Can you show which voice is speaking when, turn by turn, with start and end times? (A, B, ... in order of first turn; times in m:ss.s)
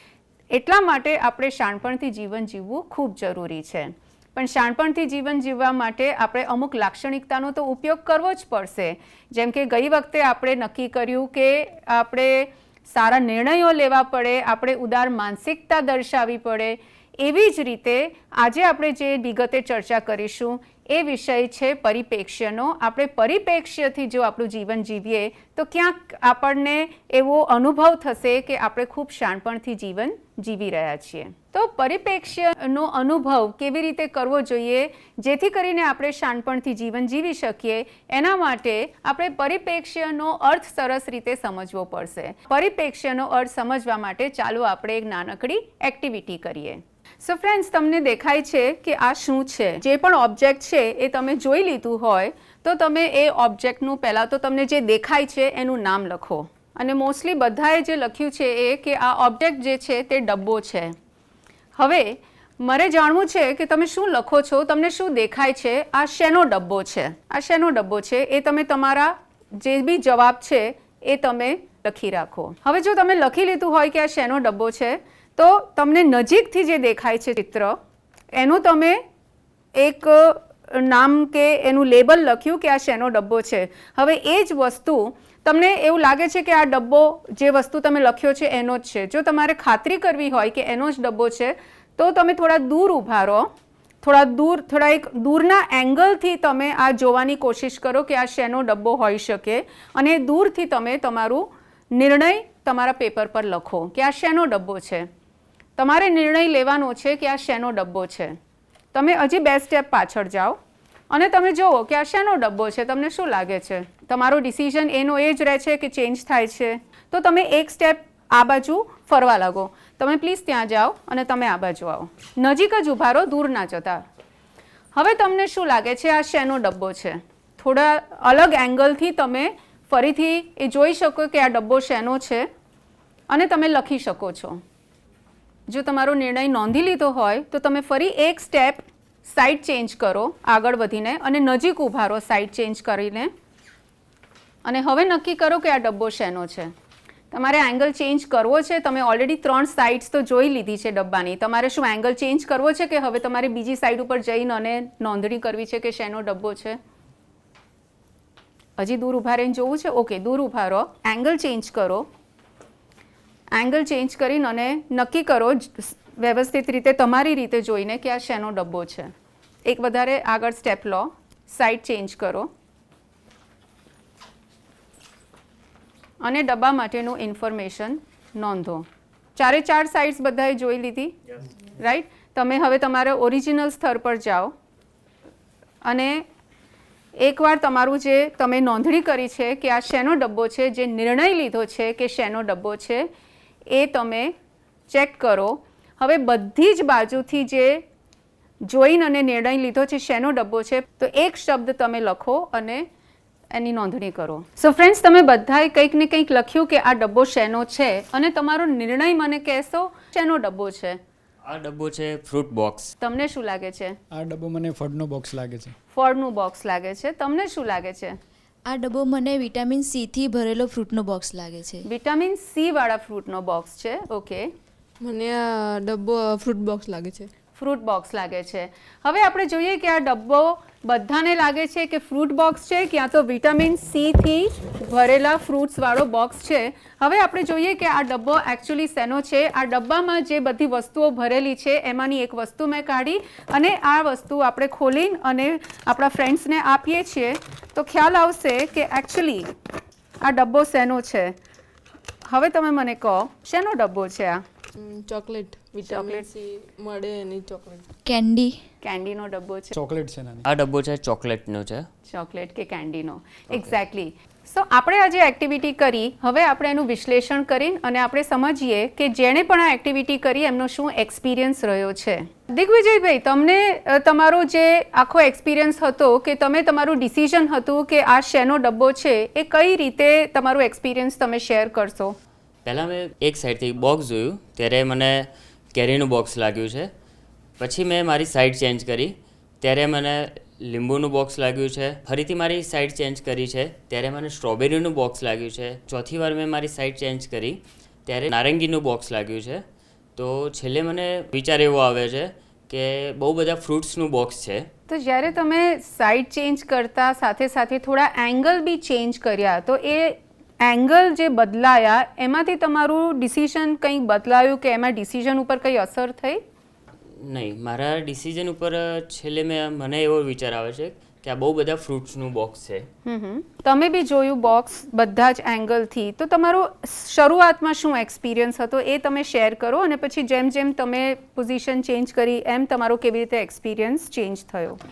0:00.5-1:00.9 A
1:01.8-1:17.8 A
1:18.3-1:19.0 A
1:19.8-1:33.5 A
1:34.0-1:45.1 A
1:45.8-1:48.4 A
1:48.9-1:50.6 A
1:51.1-2:04.0 A
2:04.9-2:12.5 A
2:13.3-2:14.6 A
2:15.7-2:23.3 A
2:24.6-2:26.7 A
2:27.3-2:36.8 A
2:38.8-2:42.1 A
2:43.5-2:49.1 A
2:49.6-2:52.5 A
2:56.2-3:01.1 A
3:01.8-3:04.5 A
3:05.8-3:06.2 A
3:07.2-3:13.1 A
3:13.7-3:14.3 A
3:14.9-3:17.8 A
3:18.6-3:22.8 A
3:23.5-3:31.0 A
3:31.4-3:32.9 B
3:33.0-3:34.0 A
3:34.1-3:35.7 C
3:35.9-3:38.2 A
3:38.7-3:41.8 D
3:41.8-3:44.5 A
3:45.0-3:47.3 E
3:47.6-4:09.5 A
4:10.2-4:11.3 A
4:12.3-4:14.4 A
4:14.8-4:17.8 E
4:15.9-4:16.2 A
4:18.0-4:18.6 D
4:18.8-4:19.8 A
4:19.7-4:20.4 C
4:20.4-4:21.9 B
4:22.1-4:42.2 A
4:42.6-4:46.9 B
4:47.6-4:59.6 B
5:00.2-5:04.7 B
5:04.9-5:16.4 A
5:17.2-5:22.9 B
5:23.0-5:34.8 A